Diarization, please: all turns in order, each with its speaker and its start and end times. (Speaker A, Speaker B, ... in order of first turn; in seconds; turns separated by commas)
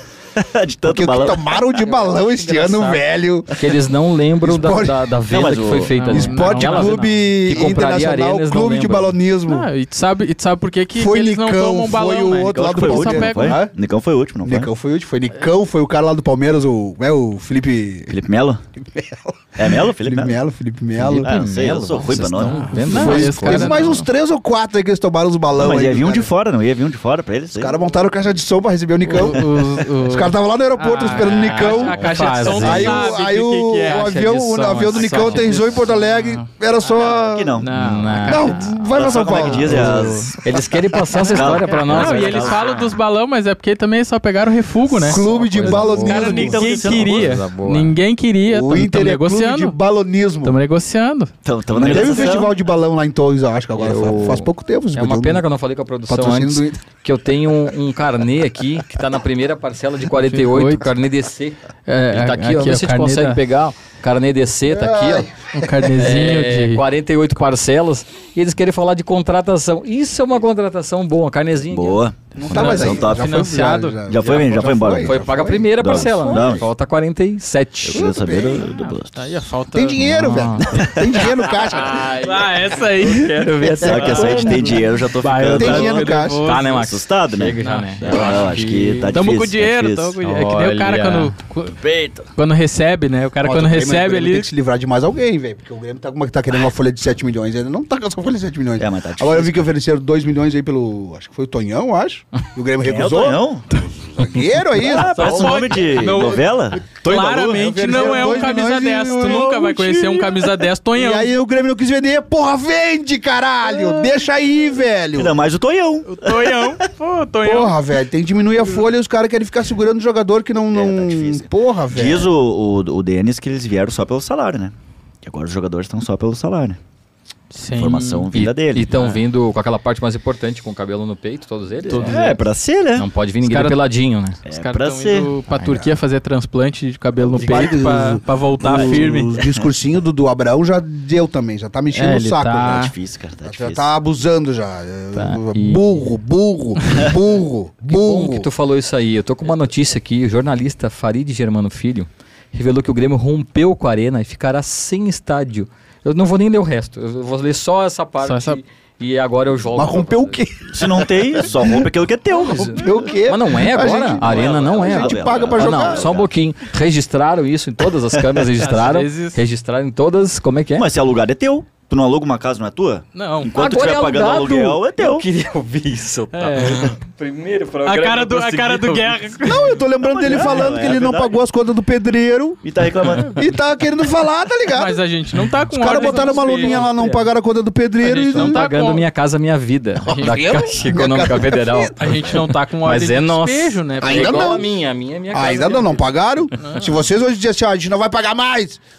Speaker A: 0.3-1.7, Speaker B: 0.8-3.6, Speaker C: 2.0-3.0, Speaker C: 3.5-9.1, Speaker B: 4.4-5.2, Speaker A: 5.3-5.9, Speaker D: 5.9-7.1, Speaker B: 6.1-9.7, Speaker D: 9.4-13.6, Speaker B: 10.9-13.7, Speaker A: 12.5-14.7, Speaker B: 14.4-18.1, Speaker A: 18.1-18.6, Speaker B: 18.8-21.3, Speaker A: 19.5-20.4, Speaker C: 21.0-24.0, Speaker A: 21.1-22.9, Speaker D: 22.4-24.1, Speaker B: 22.8-26.3, Speaker A: 25.5-27.8, Speaker B: 27.5-37.5, Speaker D: 29.0-34.2, Speaker C: 31.1-33.1, Speaker C: 33.9-35.8, Speaker D: 34.9-36.5, Speaker A: 37.0-37.7, Speaker D: 37.6-40.3, Speaker C: 37.7-38.8, Speaker B: 38.3-41.0, Speaker A: 38.9-40.4, Speaker C: 40.4-42.9, Speaker D: 41.1-49.8, Speaker A: 41.3-42.8, Speaker B: 44.9-46.6, Speaker C: 45.1-48.0, Speaker A: 46.0-47.4, Speaker B: 48.5-50.5, Speaker D: 50.4-52.5, Speaker A: 51.4-52.5, Speaker B: 51.8-55.4, Speaker C: 53.8-61.6, Speaker B: 56.1-56.8, Speaker D: 60.1-60.9, Speaker D: 61.9-63.4, Speaker C: 62.1-65.3, Speaker B: 64.7-65.9, Speaker D: 65.5-66.8, Speaker C: 65.9-72.0, Speaker A: 71.7-73.4, Speaker B: 72.3-76.6, Speaker D: 72.4-74.1, Speaker A: 74.1-76.6, Speaker C: 75.0-78.2, Speaker A: 77.8-79.4, Speaker B: 77.9-78.7, Speaker D: 78.6-80.5, Speaker B: 79.7-82.1, Speaker C: 80.0-84.8, Speaker A: 80.7-81.1, Speaker D: 81.9-86.9, Speaker B: 83.6-84.2, Speaker A: 83.8-90.2, Speaker B: 85.5-86.4, Speaker C: 86.4-89.2, Speaker D: 87.6-88.5, Speaker D: 89.1-94.5, Speaker C: 90.2-91.3, Speaker A: 91.7-92.3, Speaker B: 93.4-106.4, Speaker A: 98.8-99.7, Speaker A: 102.8-103.8, Speaker A: 104.8-107.3, Speaker D: 104.8-111.3, Speaker B: 106.9-115.3, Speaker D: 113.7-114.1, Speaker A: 115.1-116.7, Speaker D: 116.1-117.8, Speaker B: 117.4-122.3, Speaker A: 120.7-126.8, Speaker D: 127.5-128.3, Speaker A: 127.7-128.9, Speaker C: 128.3-132.4, Speaker D: 128.9-129.2, Speaker A: 131.8-133.1, Speaker D: 131.8-132.4, Speaker C: 132.9-134.4, Speaker D: 133.4-133.8, Speaker A: 134.4-135.3, Speaker D: 134.4-139.4, Speaker C: 135.5-135.9, Speaker B: 137.3-142.9, Speaker A: 138.8-139.6, Speaker D: 141.9-142.9, Speaker A: 142.7-143.9, Speaker B: 143.4-148.5, Speaker C: 145.1-146.1, Speaker C: 147.9-160.4, Speaker D: 158.2-158.6, Speaker B: 159.7-161.8, Speaker A: 160.7-163.0, Speaker C: 162.3-170.9, Speaker B: 162.8-166.2, Speaker A: 164.0-166.3, Speaker D: 168.6-169.4, Speaker A: 170.8-175.2, Speaker D: 173.1-173.5, Speaker C: 173.5-179.6, Speaker D: 176.3-176.9, Speaker D: 177.8-179.8, Speaker B: 179.4-185.0, Speaker A: 180.0-181.4, Speaker A: 182.6-183.4, Speaker D: 184.7-187.3, Speaker B: 185.7-188.6, Speaker C: 185.9-186.8, Speaker D: 188.0-189.1, Speaker C: 188.3-196.0, Speaker D: 190.1-190.4, Speaker B: 190.1-192.4, Speaker D: 191.9-194.7, Speaker B: 194.0-194.7, Speaker B: 195.3-198.8, Speaker D: 196.6-196.9